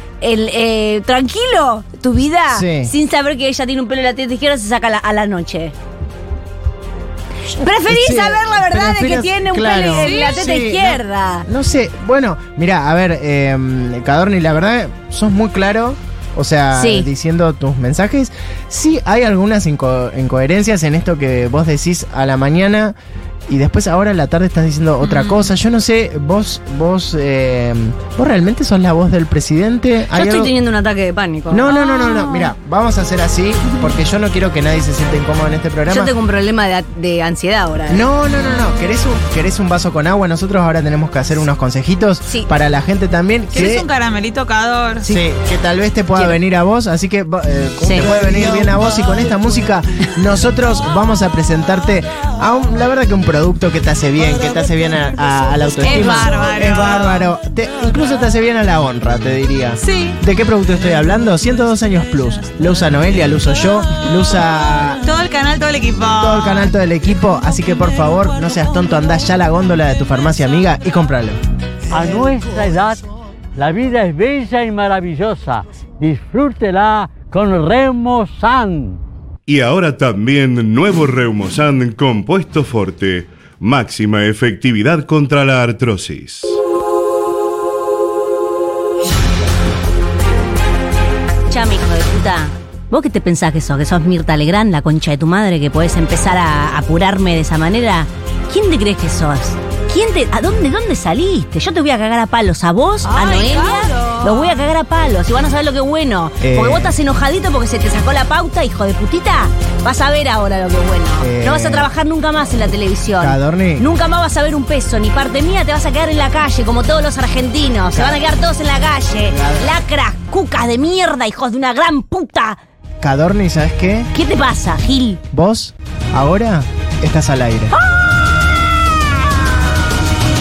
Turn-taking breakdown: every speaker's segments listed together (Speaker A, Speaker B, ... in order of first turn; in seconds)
Speaker A: 0.2-5.7, 7.6-11.5, 16.7-17.1, 30.1-31.7, 35.9-38.1, 46.1-46.4, 47.8-48.4, 55.8-56.3, 91.5-122.6, 124.1-125.2, 127.7-128.1
Speaker B: 2.5-2.9, 7.9-22.9, 23.5-30.5, 31.5-36.1, 37.9-43.9, 45.0-65.0, 66.1-71.4, 106.4-107.0, 111.2-111.9, 113.2-113.8, 117.9-118.2, 119.3-119.8, 123.0-124.1, 125.3-127.7
Speaker C: 9.9-10.5, 25.0-25.5, 31.7-32.5, 33.6-33.9, 43.5-45.1, 55.8-57.3, 59.8-60.2, 61.3-64.4, 65.0-70.7, 103.0-104.6
Speaker D: 71.9-79.0
Speaker E: 79.5-86.6